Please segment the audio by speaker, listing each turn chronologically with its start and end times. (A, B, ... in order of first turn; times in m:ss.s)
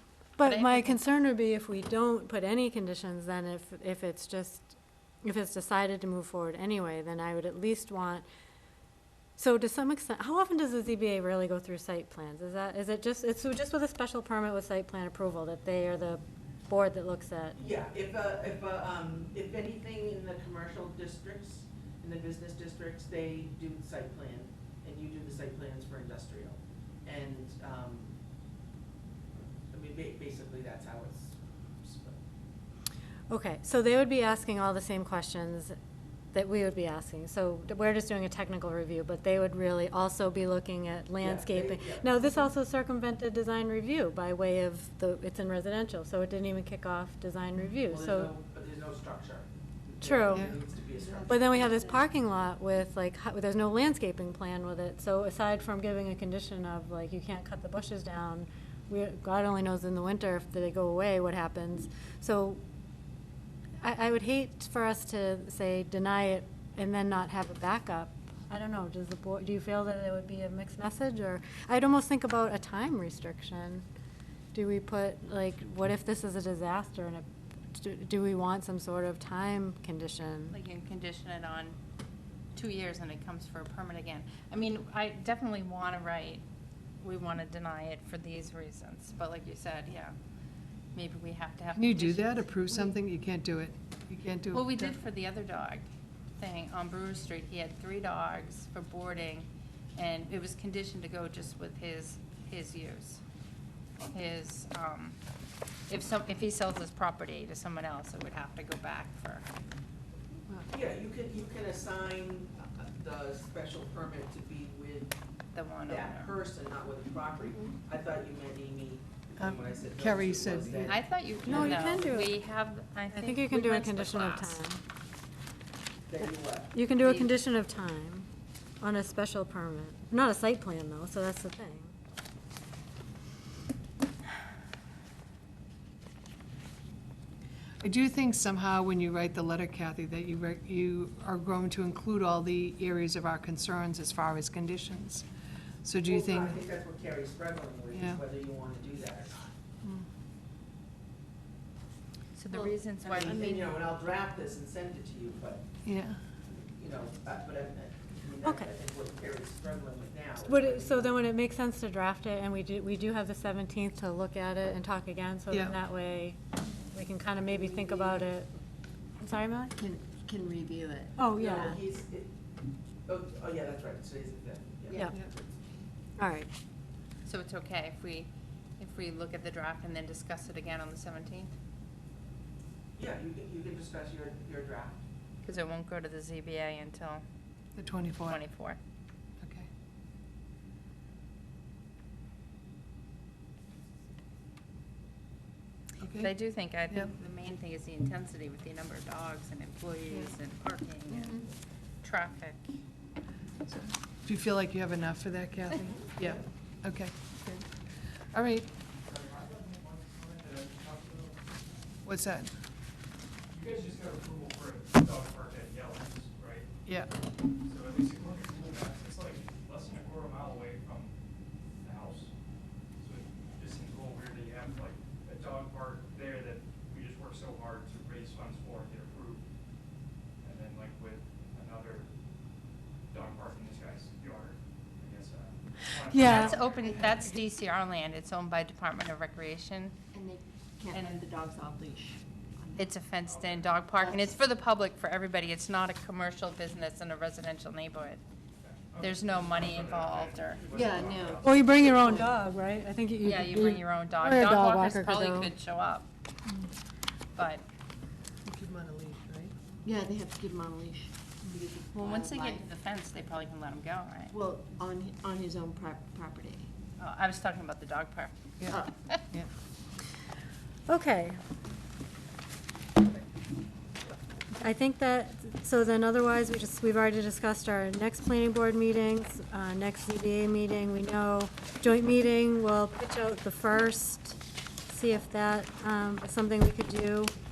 0:00.4-0:08.2 A
0:00.4-0:01.0 B
0:09.4-0:17.6 A
0:17.6-0:28.1 C
0:29.7-0:32.2 C
0:33.3-0:35.7 A
0:36.3-0:48.3 A
0:41.2-0:42.1 C
0:47.9-0:51.7 C
0:50.0-0:50.6 A
0:51.0-0:52.0 D
0:51.2-1:02.6 A
1:03.8-1:13.8 A
1:14.5-1:20.6 A
1:20.5-1:21.8 B
1:22.5-1:26.4 B
1:27.0-1:30.1 B
1:30.9-1:32.9 B
1:31.7-1:35.0 E
1:34.5-1:35.8 B
1:36.4-1:43.2 B
1:44.1-1:45.2 B
1:45.9-1:49.4 B
1:50.7-1:55.1 C
1:55.5-1:56.3 B
1:55.8-2:02.0 C
1:59.4-2:00.9 E
2:00.8-2:04.6 B
2:01.4-2:02.4 A
2:03.1-2:04.8 A
2:06.1-2:06.7 C
2:06.7-2:08.3 A
2:07.0-2:07.3 B
2:08.8-2:11.9 A
2:17.8-2:25.2 E
2:25.8-2:26.6 E
2:26.0-2:29.5 C
2:27.9-2:28.2 E
2:32.4-2:33.7 B
2:33.0-2:35.7 C
2:35.8-2:36.2 E
2:36.5-2:41.2 C
2:38.4-2:38.7 A
2:40.4-2:46.4 A
2:45.5-2:45.8 E
2:46.9-2:48.5 A
2:47.5-2:48.3 C
2:49.2-2:49.7 A
2:49.8-2:51.2 D
2:51.2-2:51.8 A
2:51.3-2:52.3 C
2:53.1-2:55.6 C
2:56.2-2:56.5 A
2:57.2-3:01.5 B
3:03.0-3:05.0 C
3:05.4-3:07.2 B
3:07.7-3:08.4 E
3:08.2-3:08.8 B
3:09.4-3:09.7 E
3:16.0-3:17.1 E
3:16.2-3:21.5 B
3:22.0-3:22.6 B
3:23.6-3:27.7 E
3:28.3-3:28.7 E
3:29.1-3:31.4 F
3:32.0-3:32.5 E
3:33.5-3:36.7 F
3:36.8-3:37.1 E
3:37.6-3:41.2 F
3:41.8-3:42.3 F
3:43.0-3:49.4 F
3:50.4-3:52.1 F
3:53.1-3:57.2 F
3:56.1-3:56.5 E
3:56.2-4:00.0 B
4:00.1-4:02.9 D
4:00.9-4:01.2 B
4:02.7-4:08.2 B
4:03.2-4:03.9 F
4:03.9-4:04.3 D
4:08.6-4:11.9 F
4:09.0-4:10.7 B
4:10.7-4:12.4 D
4:11.4-4:15.5 A
4:13.2-4:16.1 B
4:17.4-4:17.6 B
4:18.4-4:19.5 E
4:19.8-4:22.6 D
4:21.9-4:24.3 B
4:24.3-4:26.7 D
4:27.0-4:28.3 B
4:28.6-4:29.5 E
4:30.9-4:31.4 A
4:34.6-4:47.3 A